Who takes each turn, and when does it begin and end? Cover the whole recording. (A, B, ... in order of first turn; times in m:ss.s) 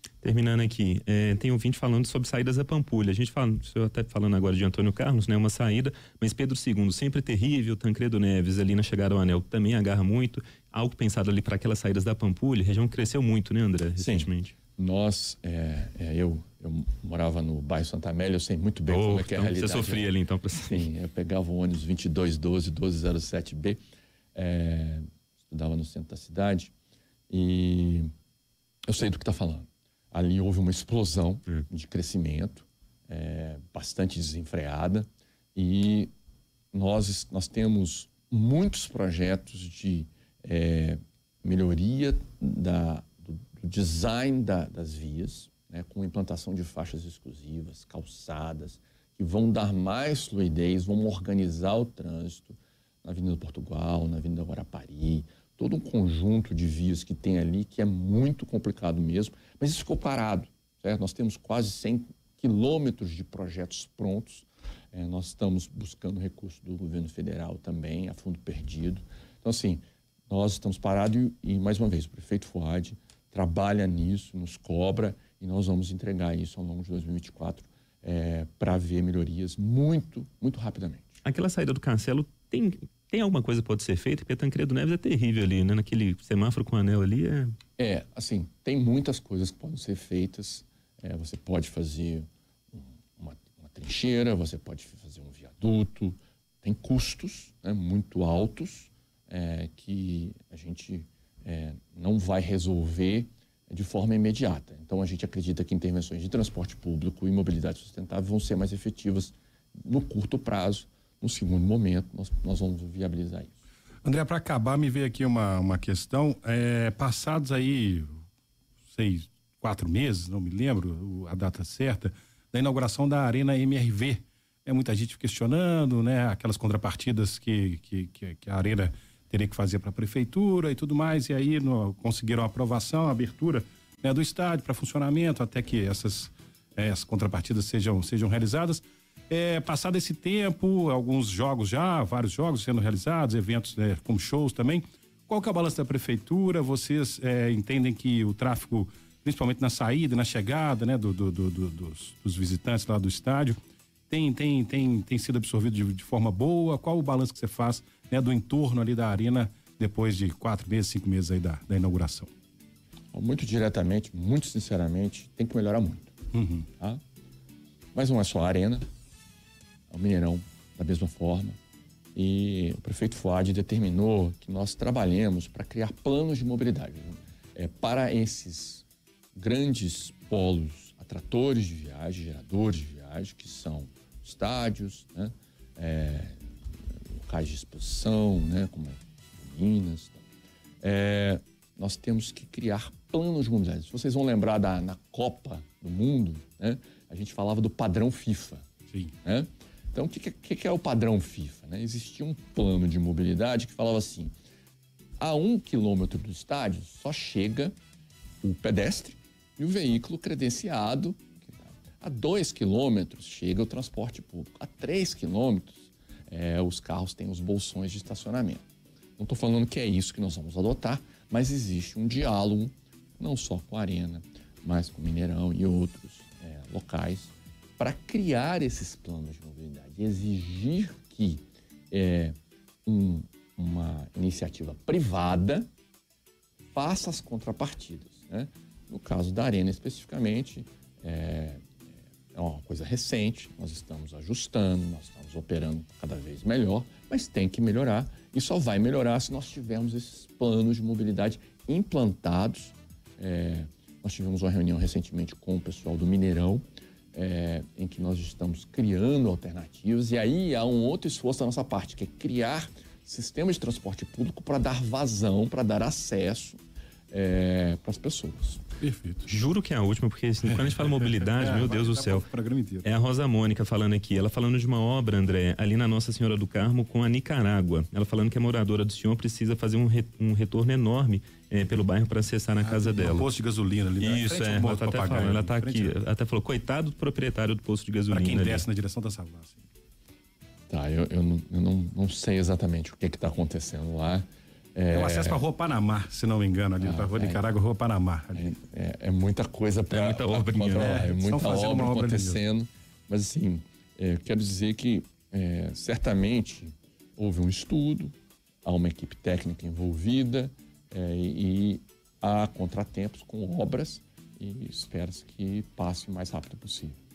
0:00.2-0:14.5 A
0:14.0-0:20.1 B
0:18.9-0:20.9 A
0:20.7-0:23.8 B
0:24.4-0:26.7 B
0:27.3-0:28.1 B
0:28.9-0:36.1 B
0:36.7-1:21.2 B
1:21.2-1:27.6 A
1:27.8-1:53.5 B
1:54.0-1:58.2 C
1:58.9-2:33.6 C
2:34.1-2:42.3 C
2:43.1-2:46.1 B
2:46.3-2:46.7 C
2:47.9-2:48.9 B
2:49.9-2:51.6 B
2:52.2-3:06.4 B
3:07.1-3:10.2 B
3:10.8-3:18.7 B
3:19.2-3:24.3 B
3:25.2-3:27.8 B
3:28.4-3:38.6 B
3:39.2-3:55.7 B
3:56.7-4:01.6 B
4:02.3-4:26.6 B
4:27.1-4:28.7 B
4:28.8-4:29.3 C
4:29.3-4:32.3 A
4:30.5-4:32.9 C
4:32.8-4:43.3 A
4:42.6-4:46.0 C
4:44.0-4:48.6 A
4:48.1-4:49.6 C
4:50.7-4:55.4 B
4:54.9-4:58.5 C
4:56.8-4:57.4 B
4:58.3-5:08.1 B
5:00.0-5:02.4 C
5:00.6-5:00.9 A
5:08.6-5:17.0 B